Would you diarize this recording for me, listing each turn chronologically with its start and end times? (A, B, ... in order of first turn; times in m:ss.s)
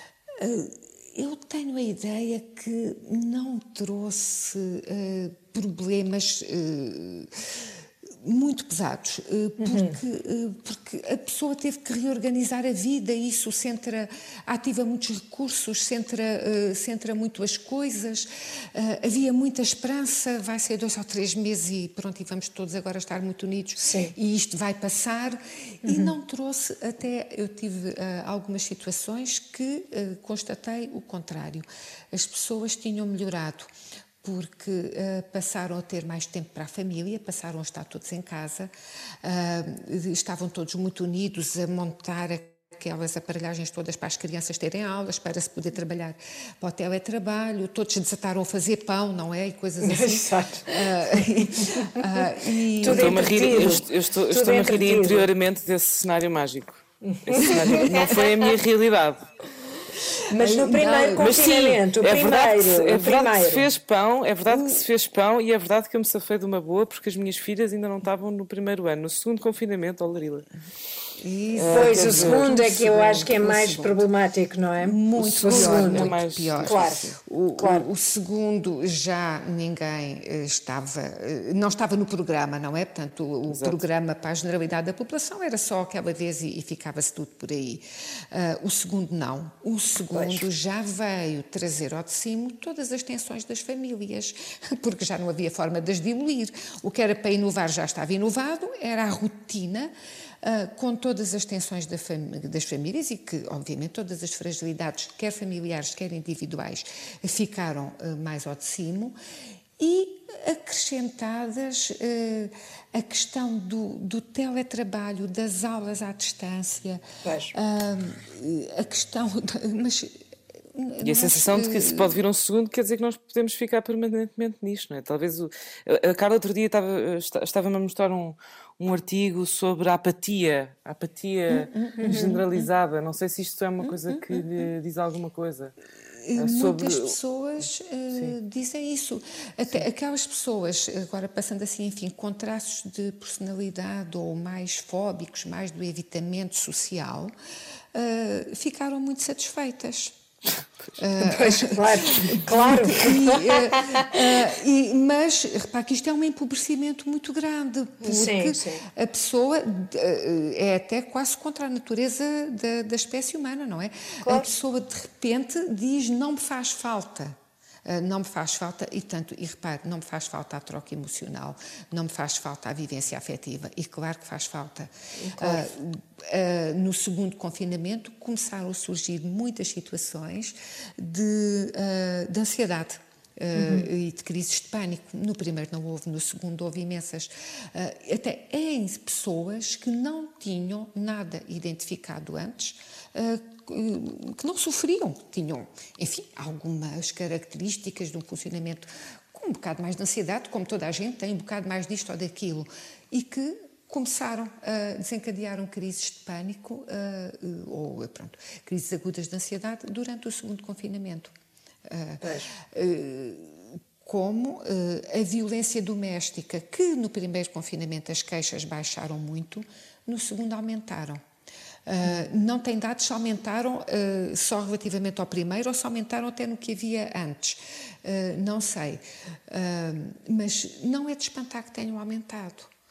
0:00.3-0:33.7 A
0:09.6-0:10.0 B
0:23.8-0:24.1 B
0:25.8-0:26.1 B
0:34.2-0:38.7 A
0:39.2-0:53.8 A
0:49.8-0:52.0 B
0:52.8-0:55.3 B
0:52.8-0:59.2 C
0:57.0-0:58.5 B
0:57.6-0:58.0 A
1:00.3-1:03.7 B
1:00.3-1:01.4 A
1:01.1-1:10.5 C
1:04.5-1:04.8 A
1:11.2-1:14.1 A
1:11.5-1:12.8 C
1:11.7-1:17.9 B
1:14.8-1:39.9 A
1:15.2-1:17.2 C
1:23.5-1:23.8 C
1:30.1-1:30.4 B
1:40.4-1:49.2 A
1:49.8-2:02.2 A
1:57.2-1:57.5 B
2:01.0-2:15.7 C
2:11.5-2:12.7 A
2:12.0-2:12.4 B
2:14.1-2:14.4 A
2:16.2-2:27.3 A
2:16.3-2:17.2 C
2:27.9-2:30.2 A
2:31.0-3:31.3 A
2:31.2-2:34.1 B
2:38.0-2:38.8 B
2:55.2-2:55.7 B
3:03.5-3:03.9 B
3:31.8-3:41.2 A
3:32.2-3:32.5 B
3:41.8-3:52.7 A